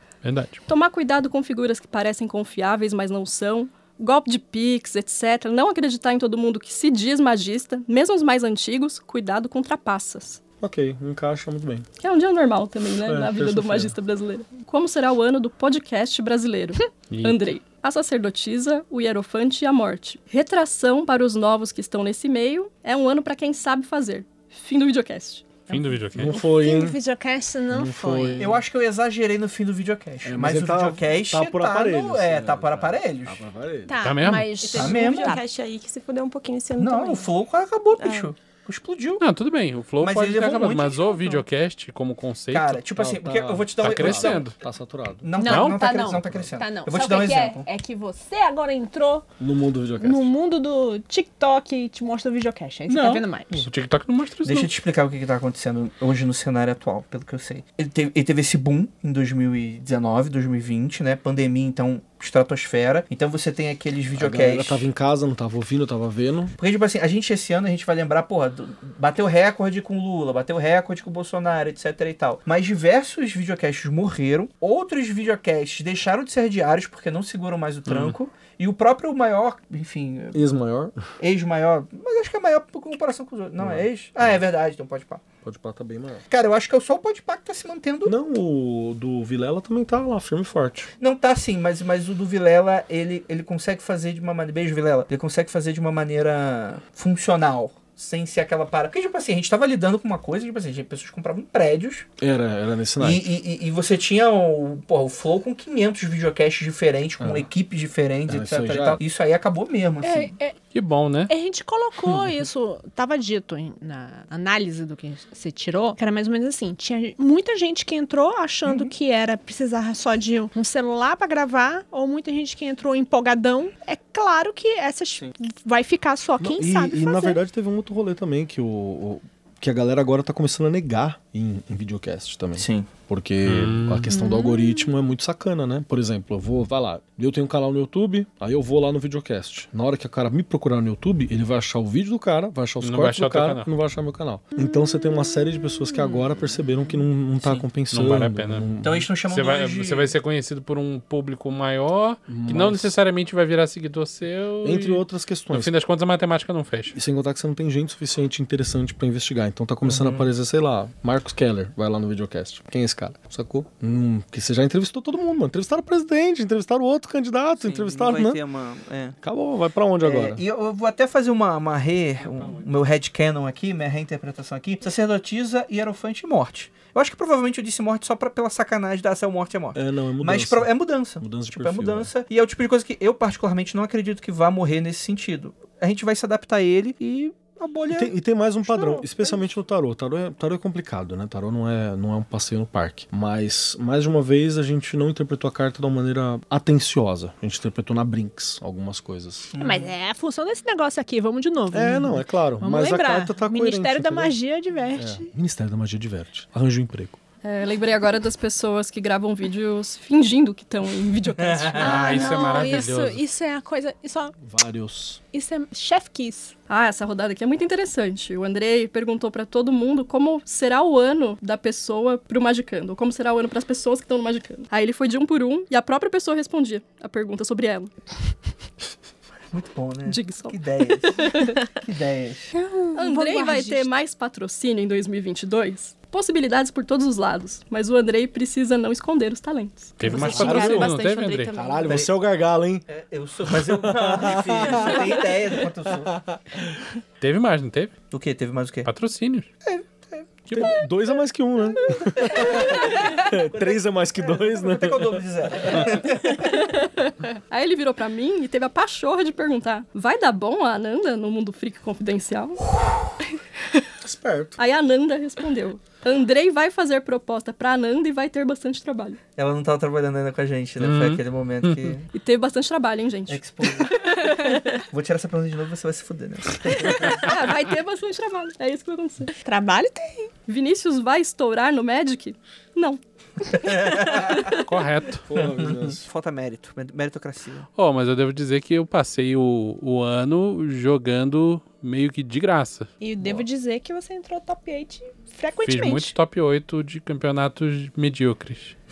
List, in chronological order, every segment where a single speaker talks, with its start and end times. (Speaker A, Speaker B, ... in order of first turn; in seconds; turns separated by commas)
Speaker A: 0.2-0.6, Speaker B: 0.7-10.4, Speaker C: 10.6-11.8, Speaker B: 12.0-25.6, Speaker C: 13.0-13.9, Speaker A: 17.1-17.4, Speaker A: 25.7-26.4, Speaker D: 25.7-28.6, Speaker C: 26.1-27.0, Speaker C: 27.7-28.6, Speaker E: 28.4-33.4, Speaker C: 30.2-34.0, Speaker D: 33.9-35.4, Speaker A: 34.0-34.6, Speaker F: 34.6-37.3, Speaker E: 34.7-35.4, Speaker E: 36.8-39.2, Speaker F: 38.0-38.3, Speaker A: 39.2-42.8, Speaker E: 40.0-41.4, Speaker E: 42.5-44.5, Speaker C: 43.0-45.3, Speaker A: 43.8-44.5, Speaker E: 45.2-47.6, Speaker D: 45.4-49.2, Speaker A: 45.4-45.8, Speaker C: 49.4-50.3, Speaker D: 50.0-53.7, Speaker A: 52.9-54.7, Speaker E: 54.4-64.8, Speaker C: 64.1-66.5, Speaker E: 66.6-80.4, Speaker A: 77.9-78.2, Speaker C: 80.3-81.0, Speaker E: 81.2-85.2, Speaker C: 83.6-84.4, Speaker C: 85.4-86.2, Speaker E: 86.3-88.1, Speaker C: 88.0-90.9, Speaker E: 91.0-102.1, Speaker C: 102.2-103.3, Speaker E: 103.0-110.3, Speaker C: 107.2-107.5, Speaker C: 108.3-109.0, Speaker D: 110.0-110.6, Speaker A: 110.7-111.3, Speaker D: 111.3-127.4, Speaker E: 118.7-118.9, Speaker C: 126.4-149.1, Speaker E: 132.6-132.9, Speaker A: 133.4-134.1, Speaker D: 134.1-134.8, Speaker A: 142.8-143.7, Speaker A: 147.9-148.7, Speaker E: 148.8-150.1, Speaker A: 149.3-156.9, Speaker C: 152.3-152.9, Speaker C: 154.6-155.7, Speaker C: 156.9-168.4, Speaker E: 159.9-160.2, Speaker E: 167.6-169.2, Speaker C: 169.2-170.4, Speaker E: 170.0-188.1, Speaker C: 179.7-182.1, Speaker C: 187.9-199.5, Speaker E: 188.7-189.4, Speaker E: 199.5-199.9, Speaker D: 199.6-205.3, Speaker C: 201.7-204.3, Speaker C: 204.9-207.2, Speaker B: 207.4-212.1, Speaker E: 211.4-212.4, Speaker D: 211.8-214.3, Speaker A: 211.8-213.2, Speaker C: 214.4-215.2, Speaker D: 215.3-216.5, Speaker B: 216.7-227.9, Speaker E: 229.5-232.5, Speaker B: 230.1-231.6, Speaker D: 232.5-233.9, Speaker B: 232.9-241.7, Speaker A: 240.0-241.5, Speaker C: 240.1-241.0, Speaker C: 241.5-242.8, Speaker E: 241.9-242.1, Speaker E: 242.9-246.1, Speaker C: 243.4-245.2, Speaker C: 246.1-246.8, Speaker A: 247.2-247.9, Speaker E: 248.1-248.9, Speaker A: 248.8-249.5, Speaker E: 249.7-250.7, Speaker C: 250.5-255.9, Speaker E: 252.1-256.6, Speaker B: 256.4-262.6, Speaker C: 264.0-264.6, Speaker B: 264.6-269.2, Speaker E: 269.4-272.1, Speaker A: 270.8-271.9, Speaker B: 272.1-274.8, Speaker E: 273.3-274.3, Speaker E: 274.9-277.4, Speaker B: 277.0-279.3, Speaker D: 279.3-280.3, Speaker B: 280.5-284.6, Speaker E: 283.5-284.5, Speaker A: 284.5-285.2, Speaker C: 285.3-286.0, Speaker E: 285.4-287.7, Speaker A: 287.8-292.9, Speaker D: 293.0-296.1, Speaker A: 295.6-298.8